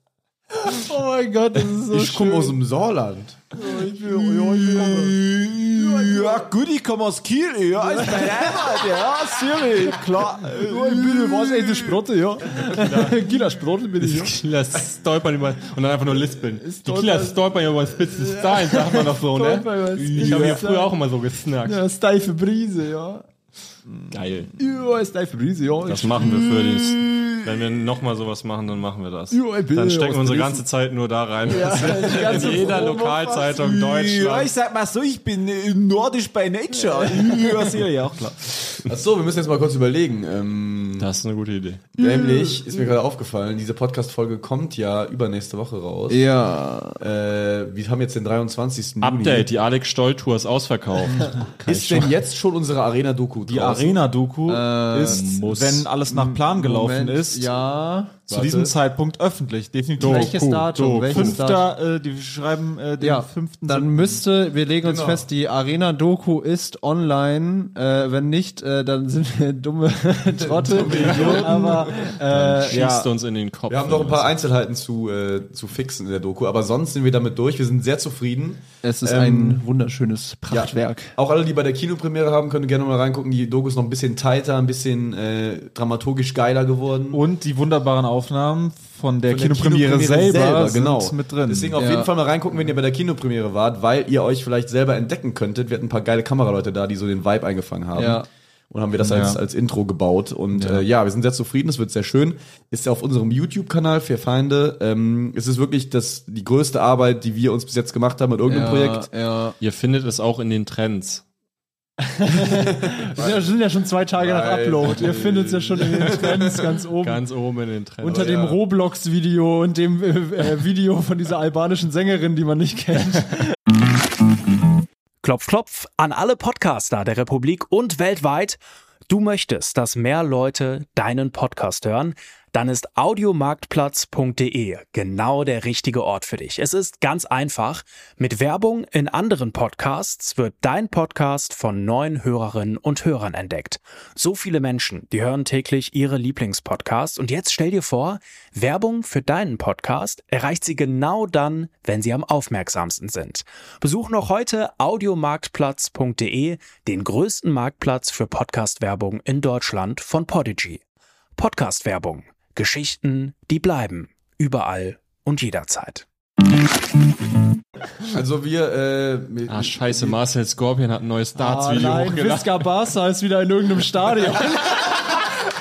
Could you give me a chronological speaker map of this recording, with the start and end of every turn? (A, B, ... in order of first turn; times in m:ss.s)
0:00.5-0:02.6 A
0:01.9-0:03.4 B
0:03.5-0:05.2 A
0:04.0-0:12.0 C
0:05.7-0:06.5 A
0:07.8-0:14.4 A
0:12.7-0:13.2 D
0:14.0-0:21.8 D
0:16.6-0:21.0 A
0:20.0-0:20.6 C
0:21.6-0:23.2 A
0:24.1-0:24.5 D
0:24.6-0:27.2 A
0:25.9-0:34.5 D
0:29.3-0:30.6 A
0:31.5-0:33.5 A
0:32.3-0:32.7 C
0:33.5-0:38.8 C
0:38.9-0:41.1 B
0:41.0-0:41.9 D
0:42.0-0:46.3 B
0:42.0-0:42.7 A
0:46.1-0:47.0 A
0:47.0-0:49.5 B
0:49.0-0:52.1 D
0:51.7-0:54.0 B
0:53.4-0:57.6 C
0:54.5-0:55.2 A
0:55.0-0:55.9 D
0:56.1-0:58.2 A
0:58.3-0:58.8 B
0:58.3-1:00.4 C
1:00.0-1:01.4 D
1:00.0-1:01.7 A
1:01.1-1:04.2 C
1:03.0-1:12.9 A
1:04.8-1:05.3 B
1:10.4-1:12.1 B
1:10.8-1:14.4 D
1:11.3-1:11.9 C
1:12.6-1:13.1 C
1:13.7-1:19.6 B
1:18.8-1:21.2 A
1:20.5-1:27.2 B
1:27.1-1:31.8 C
1:29.2-1:49.1 B
1:31.8-1:32.1 A
1:38.0-1:38.3 A
1:39.0-1:39.4 C
1:40.6-1:40.8 C
1:48.5-1:49.6 A
1:49.6-1:51.2 D
1:52.0-1:57.2 A
1:53.0-1:53.5 B
1:54.2-1:56.7 B
1:57.0-1:58.3 D
1:58.0-2:03.6 A
1:58.0-1:58.6 B
2:05.2-2:40.8 E
2:41.4-2:46.1 E
2:48.1-2:50.2 B
2:49.5-2:52.7 D
2:51.4-2:55.2 A